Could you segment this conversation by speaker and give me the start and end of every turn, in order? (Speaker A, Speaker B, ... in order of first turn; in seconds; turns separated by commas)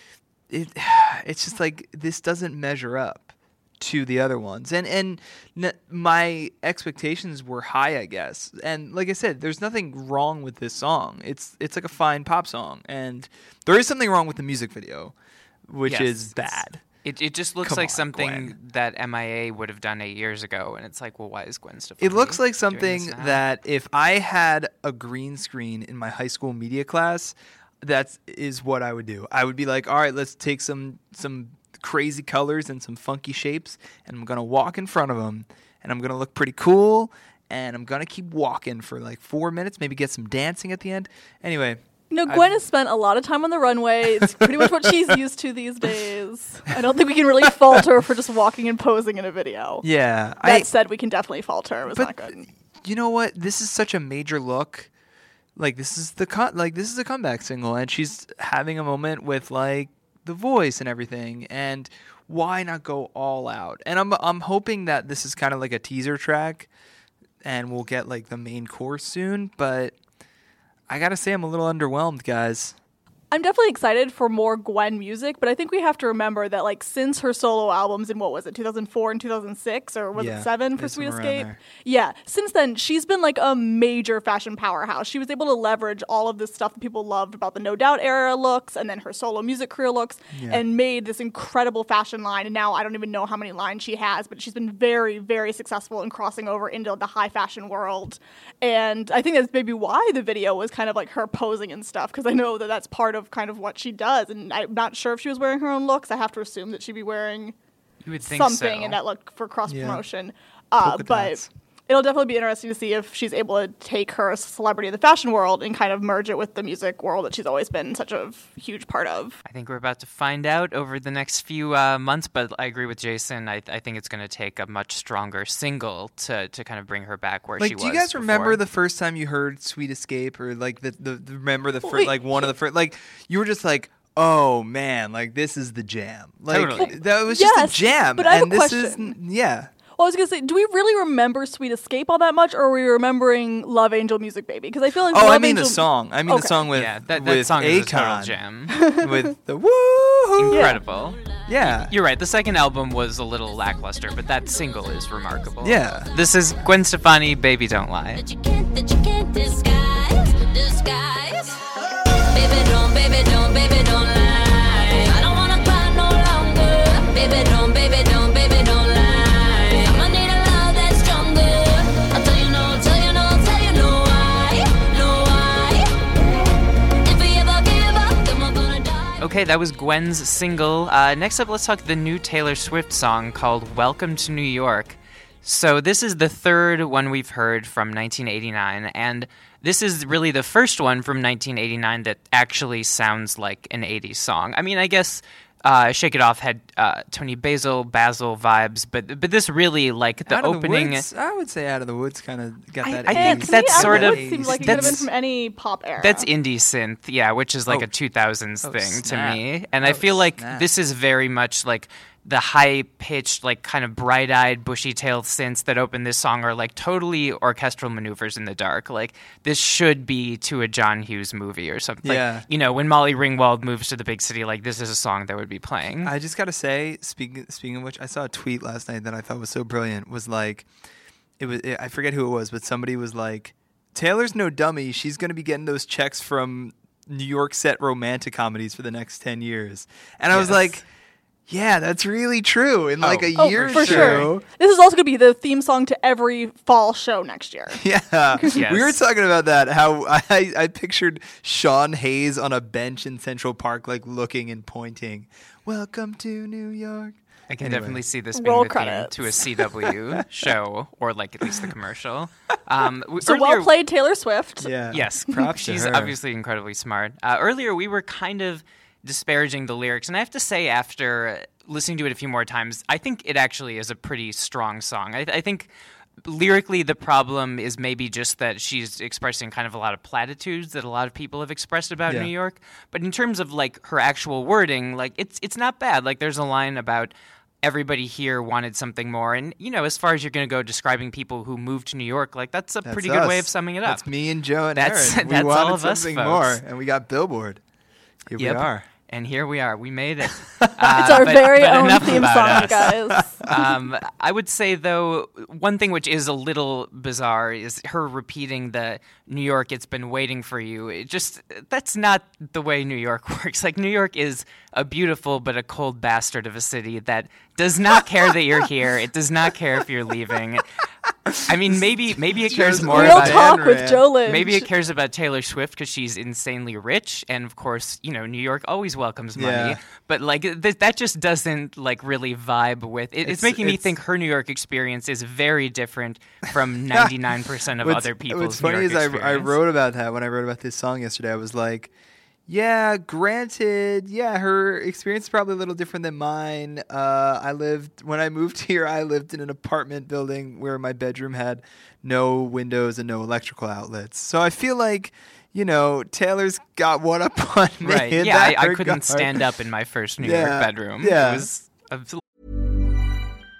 Speaker A: 0.5-15.2, Speaker A: 15.7-16.8, Speaker B: 15.8-23.4, Speaker A: 17.6-18.5, Speaker A: 22.0-42.6, Speaker C: 42.1-49.8, Speaker A: 44.2-45.1, Speaker A: 49.8-50.7, Speaker C: 50.4-52.4, Speaker A: 51.9-54.9, Speaker A: 55.5-66.7, Speaker A: 67.4-70.0, Speaker A: 70.9-72.8, Speaker C: 73.3-107.5, Speaker A: 80.1-81.6, Speaker A: 90.3-90.6, Speaker B: 108.0-109.0, Speaker C: 108.3-119.4, Speaker A: 109.7-110.0, Speaker A: 110.8-111.5, Speaker B: 119.4-128.6, Speaker A: 127.6-139.7, Speaker C: 131.8-132.5, Speaker B: 136.5-136.9, Speaker C: 136.8-139.1, Speaker C: 139.9-146.6, Speaker A: 145.1-148.4, Speaker B: 146.7-148.8, Speaker C: 148.7-149.3, Speaker A: 149.0-150.7, Speaker B: 150.4-158.2, Speaker C: 150.5-150.8, Speaker A: 151.5-151.9, Speaker D: 153.5-156.7, Speaker A: 155.6-156.1, Speaker D: 158.2-176.2, Speaker D: 177.0-179.2, Speaker B: 179.2-201.1, Speaker A: 200.2-205.1, Speaker B: 202.8-205.0, Speaker C: 203.0-206.2, Speaker B: 206.0-226.1, Speaker A: 208.6-210.7, Speaker A: 222.0-222.4, Speaker A: 226.0-230.7, Speaker A: 231.4-240.8, Speaker B: 240.3-240.8, Speaker A: 241.5-244.4, Speaker B: 243.0-244.3, Speaker C: 243.3-247.8, Speaker A: 247.8-258.0, Speaker B: 248.5-249.0, Speaker B: 257.5-263.7, Speaker C: 258.3-259.2, Speaker C: 263.2-264.7, Speaker A: 264.6-266.1, Speaker B: 264.9-275.7, Speaker B: 276.2-294.1, Speaker A: 292.9-297.6, Speaker B: 294.8-296.6, Speaker A: 298.3-298.9, Speaker B: 298.4-320.7, Speaker A: 300.6-301.3, Speaker C: 300.9-303.3, Speaker A: 301.9-303.5, Speaker A: 321.3-324.1, Speaker B: 321.4-323.6, Speaker C: 322.9-324.6, Speaker B: 324.2-339.6, Speaker A: 329.4-329.8, Speaker A: 333.2-333.9, Speaker A: 337.8-341.9, Speaker A: 342.5-359.4, Speaker B: 357.8-362.2, Speaker A: 360.2-361.5